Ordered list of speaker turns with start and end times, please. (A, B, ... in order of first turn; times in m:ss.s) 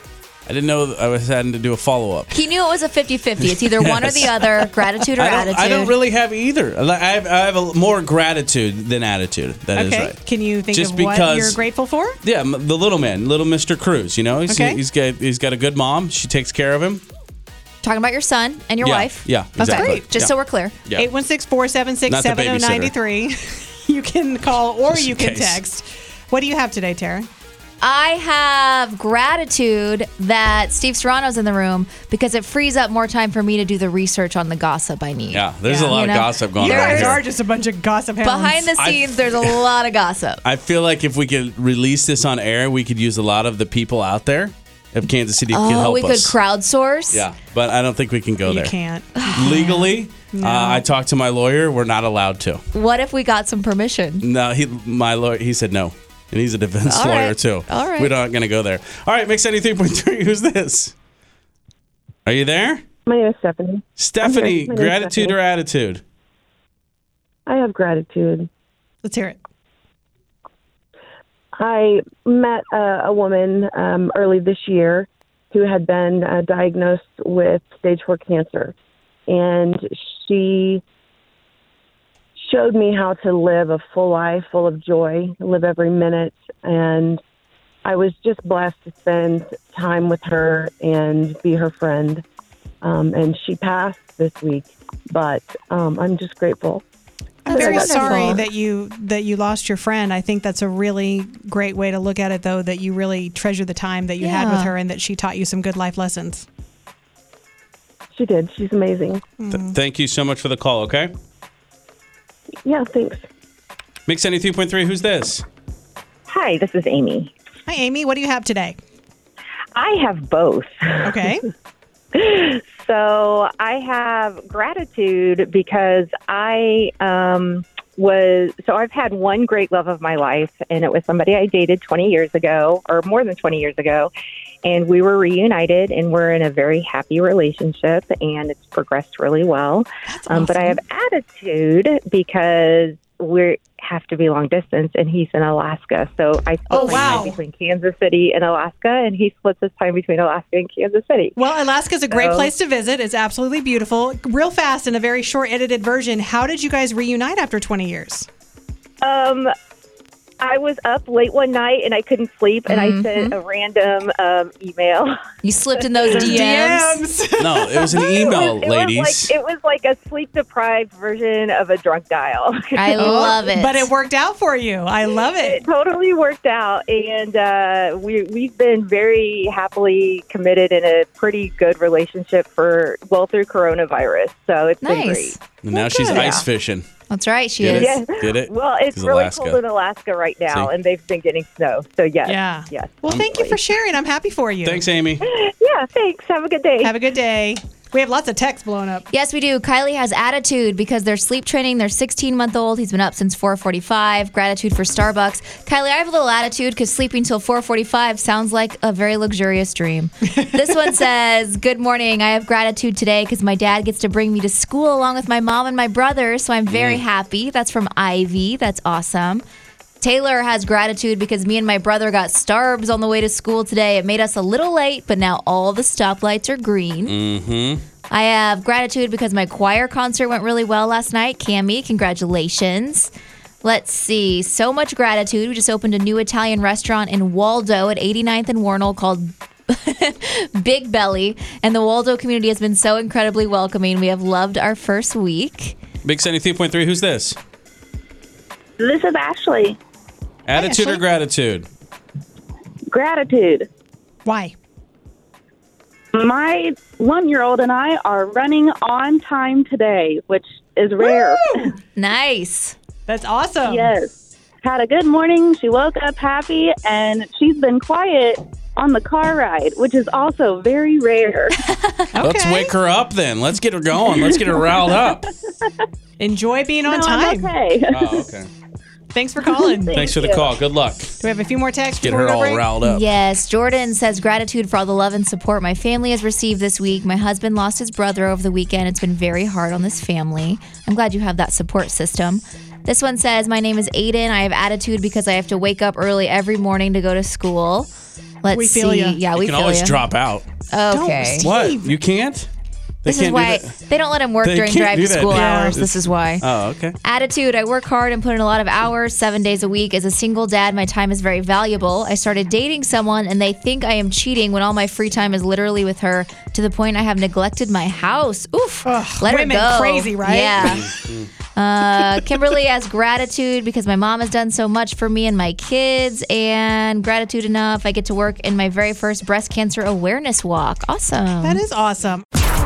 0:00.5-0:02.3 A
0:02.3-0:06.0 B
0:03.4-0:10.2 A
0:09.7-0:12.2 C
0:10.7-0:11.6 A
0:12.2-0:17.0 A
0:14.5-0:14.8 C
0:17.8-0:20.8 B
0:18.8-0:20.3 A
0:19.6-0:20.1 C
0:20.8-0:21.1 A
0:21.0-0:27.3 C
0:22.1-0:22.9 A
0:24.9-0:25.6 A
0:27.8-0:37.2 B
0:35.3-0:37.2 A
0:35.7-0:36.0 C
0:36.6-0:38.8 C
0:38.2-0:40.4 B
0:38.8-0:39.6 A
0:40.4-0:46.3 A
0:45.5-0:47.2 B
0:47.1-0:48.8 A
0:48.4-0:50.8 C
0:49.1-0:49.6 B
0:49.3-0:52.6 A
0:52.7-0:54.3 B
0:54.2-1:00.9 A
0:56.8-0:58.1 B
1:02.2-1:02.8 A
1:03.0-1:05.4 D
1:04.0-1:06.0 A
1:07.4-1:08.5 D
1:09.0-1:09.4 C
1:11.6-1:18.7 D
1:19.3-1:20.8 D
1:22.4-1:27.2 D
1:27.8-1:32.2 D
1:32.8-1:36.8 D
1:37.4-1:46.4 C
1:37.4-1:38.4 B
1:37.5-1:38.4 D
1:44.2-1:44.7 B
1:48.1-1:49.2 D
1:49.4-1:49.7 C
1:49.5-1:51.1 A
1:52.6-1:53.2 D
1:54.1-1:55.4 A
1:56.3-1:57.3 E
1:57.7-1:58.8 C
1:59.7-2:01.1 E
2:01.0-2:01.4 C
2:02.1-2:14.1 E
2:14.6-2:31.4 E
2:20.1-2:20.8 C
2:26.7-2:27.4 C
2:31.4-2:38.3 C
2:32.1-2:32.5 E
2:39.0-2:39.5 E
2:40.4-2:45.2 E
2:42.7-2:43.4 B
2:45.4-2:47.0 B
2:46.0-2:46.5 E
2:46.1-2:48.3 C
2:47.4-2:49.3 A
2:48.0-2:53.4 E
2:52.7-2:53.9 B
2:52.9-2:55.6 C
2:55.3-3:05.4 E
3:04.8-3:05.4 B
3:05.6-3:06.8 A
3:05.7-3:06.4 C
3:06.1-3:06.4 E
3:07.1-3:08.0 B
3:07.6-3:09.6 A
3:07.6-3:13.6 E
3:12.2-3:14.8 C
3:14.6-3:15.2 A
3:15.2-3:16.9 E
3:16.8-3:19.1 C
3:19.1-3:39.4 B
3:36.7-3:37.0 A
3:40.0-3:47.2 B
3:47.1-3:47.8 A
3:48.1-3:53.1 B
3:53.6-4:05.8 B
4:06.0-4:07.4 A
4:08.8-4:09.8 F
4:10.5-4:11.7 A
4:10.6-4:11.0 C
4:12.9-4:13.7 F
4:14.2-4:14.5 C
4:16.1-4:21.7 F
4:21.0-4:21.7 C
4:21.9-4:22.7 B
4:23.1-4:24.0 C
4:23.6-4:31.6 F
4:31.7-4:32.1 B
4:32.1-4:32.7 C
4:32.2-4:35.2 A
4:34.0-4:34.9 F
4:36.2-4:37.6 C
4:36.8-4:38.2 F
4:37.9-4:38.5 A
4:39.1-4:40.0 C
4:39.4-4:40.6 F
4:39.9-4:41.2 A
4:41.2-4:42.7 C
4:42.0-4:43.0 A
4:42.8-4:57.9 B
4:58.4-5:00.0 B
4:58.5-4:59.2 C
4:59.3-5:00.5 A
5:00.7-5:01.5 B
5:00.9-5:01.9 C
5:01.4-5:02.5 A
5:03.0-5:03.7 A
5:03.0-5:06.4 B
5:04.4-5:06.9 A
5:05.3-5:05.8 C
5:07.0-5:20.9 B
5:18.8-5:20.8 C
5:20.6-5:21.3 A
5:21.5-5:31.6 B
5:31.4-5:32.2 C